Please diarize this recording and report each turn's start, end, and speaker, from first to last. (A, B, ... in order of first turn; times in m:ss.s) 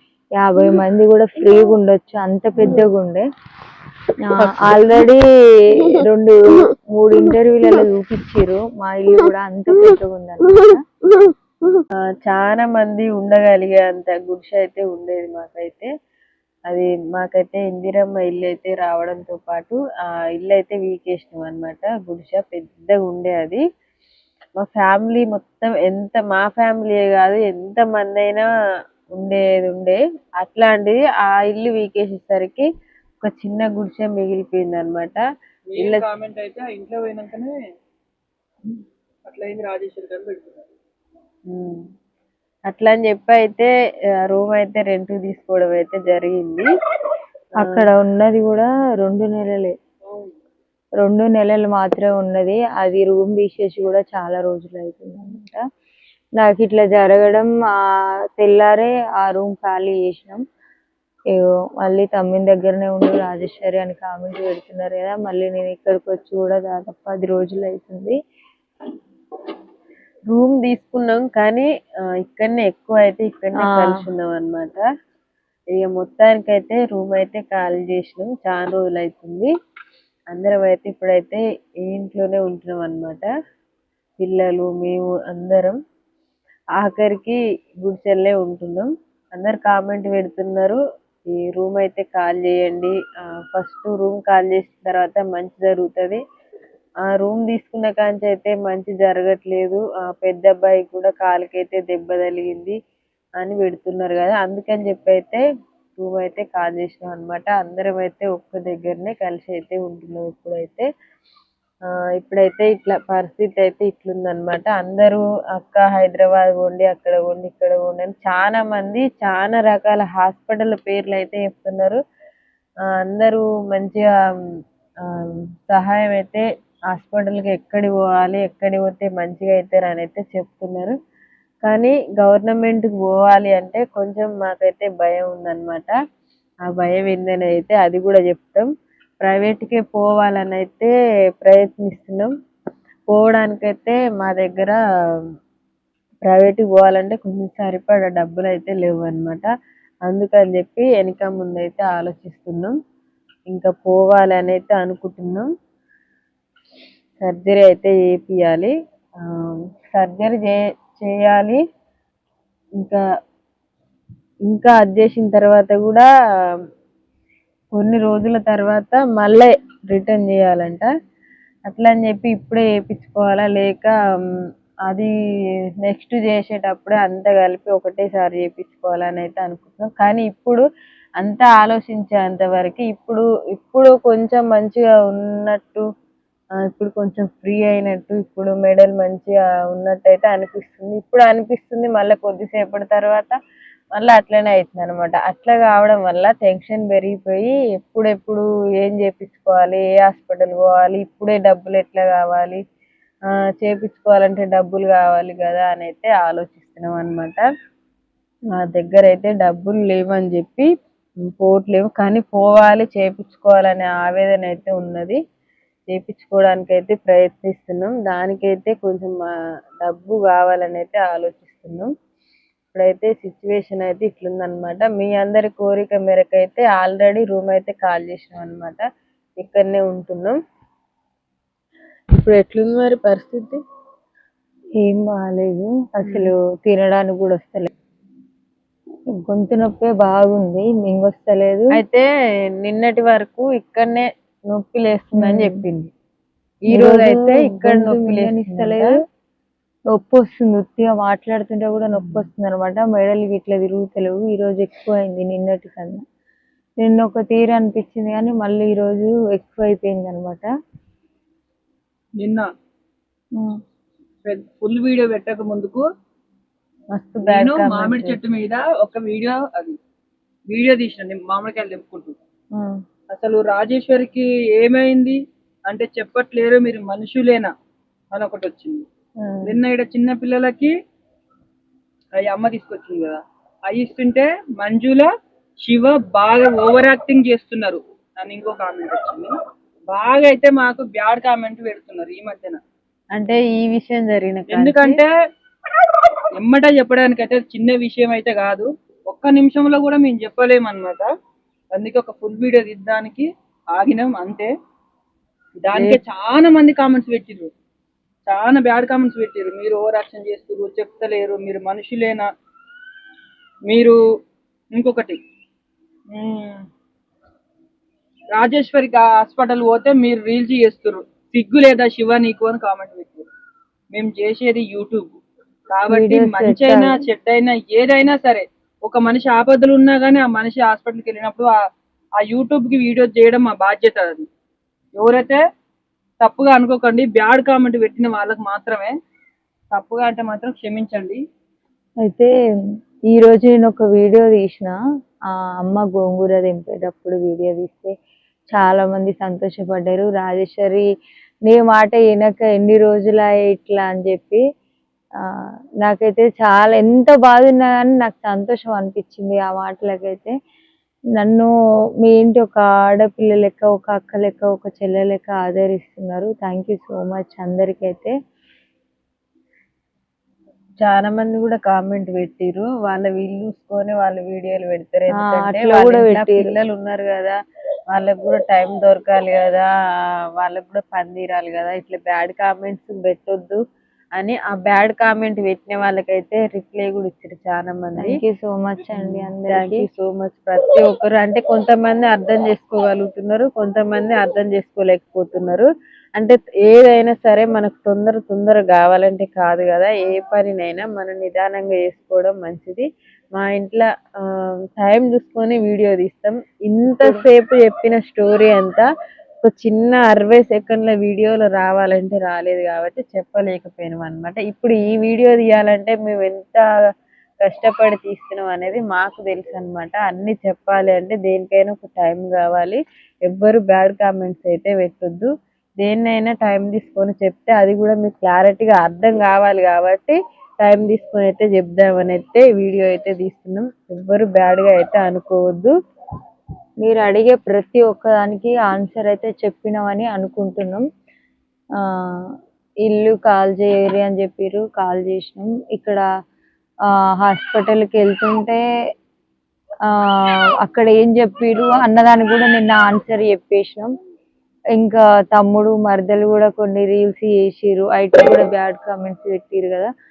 0:00.4-0:03.2 A
0:04.2-0:05.2 A
0:05.8-0:10.8 A
0:12.2-0:15.9 B
0:16.7-0:23.6 B
0:24.6-0:28.5 B
0:29.1-0:32.7 B
0:33.2-0:35.2 B
0:35.7-0:37.5 C
0:35.8-0:36.0 B
0:39.2-0:40.7 C
0:41.5-0:41.8 B
0:42.7-0:43.7 B
0:44.3-0:46.7 B
0:47.6-0:49.7 A
0:50.0-0:50.3 C
0:51.0-0:55.6 A
0:56.4-0:57.8 A
0:58.4-1:00.4 A
1:01.4-1:08.2 A
1:10.3-1:11.7 B
1:12.2-1:14.8 B
1:13.6-1:14.0 A
1:15.7-1:19.5 B
1:20.3-1:23.3 B
1:24.2-1:25.8 B
1:26.8-1:30.8 B
1:31.3-1:36.2 B
1:37.1-1:42.8 B
1:43.4-1:45.4 B
1:46.0-1:50.9 B
1:52.1-2:02.0 B
2:03.0-2:04.1 B
2:05.1-2:10.9 B
2:11.6-2:16.0 B
2:16.7-2:18.7 B
2:19.2-2:22.3 B
2:23.1-2:24.8 B
2:26.2-2:29.5 B
2:30.0-2:32.8 B
2:33.5-2:35.5 B
2:37.2-2:38.7 B
2:39.2-2:41.6 B
2:44.5-2:46.1 B
2:47.7-2:50.9 B
2:51.7-2:53.9 B
2:55.8-3:00.6 B
3:01.2-3:05.8 B
3:06.7-3:13.3 B
3:13.9-3:22.6 B
3:23.6-3:27.4 B
3:28.5-3:30.7 B
3:31.4-3:35.2 B
3:35.9-3:39.2 B
3:39.8-3:41.9 B
3:42.7-3:48.8 B
3:49.4-3:50.4 B
3:52.1-3:53.6 B
3:54.8-3:57.7 A
3:56.0-3:56.3 B
3:59.2-4:01.6 A
4:01.7-4:02.0 B
4:02.6-4:05.9 B
4:05.2-4:05.6 A
4:06.7-4:08.9 B
4:06.7-4:08.9 A
4:09.9-4:16.0 A
4:12.0-4:12.2 B
4:16.8-4:20.5 A
4:22.2-4:22.5 C
4:24.2-4:25.8 C
4:26.9-4:28.2 B
4:27.2-4:29.8 C
4:30.5-4:32.2 C
4:33.1-4:37.5 C
4:38.1-4:38.8 C
4:39.2-4:39.6 B
4:39.4-4:40.7 C
4:42.2-4:45.1 C
4:45.6-4:49.3 C
4:49.9-4:52.6 C
4:53.1-4:55.0 B
4:54.5-4:55.1 C
4:56.4-5:01.1 C
5:01.7-5:04.5 C
5:05.6-5:07.5 C
5:05.7-5:06.0 B
5:08.2-5:12.3 C
5:13.7-5:14.0 C
5:14.7-5:15.2 C
5:16.1-5:16.6 C
5:18.3-5:23.3 C
5:23.9-5:25.1 C
5:25.7-5:31.5 C
5:25.9-5:27.0 A
5:32.2-5:34.3 C
5:35.0-5:35.4 C
5:36.2-5:38.9 C
5:39.7-5:41.2 C
5:42.0-5:42.3 A
5:43.1-5:44.8 A
5:45.3-5:47.9 A
5:48.5-5:50.8 A
5:51.5-5:54.4 A
5:55.3-6:00.3 A
6:01.2-6:01.5 A
6:02.0-6:08.1 A
6:10.8-6:17.4 B
6:15.2-6:16.5 A
6:17.9-6:19.7 B
6:20.4-6:23.6 B
6:24.2-6:28.1 B
6:28.0-6:29.8 A
6:28.9-6:48.9 B
6:47.0-6:47.2 A
6:49.4-6:56.6 B
6:57.4-7:05.3 B
7:05.8-7:15.7 B
7:16.8-7:20.8 A
7:22.0-7:22.3 A
7:22.8-7:26.0 A
7:27.2-7:28.6 A
7:30.1-7:33.9 A
7:34.8-7:39.9 A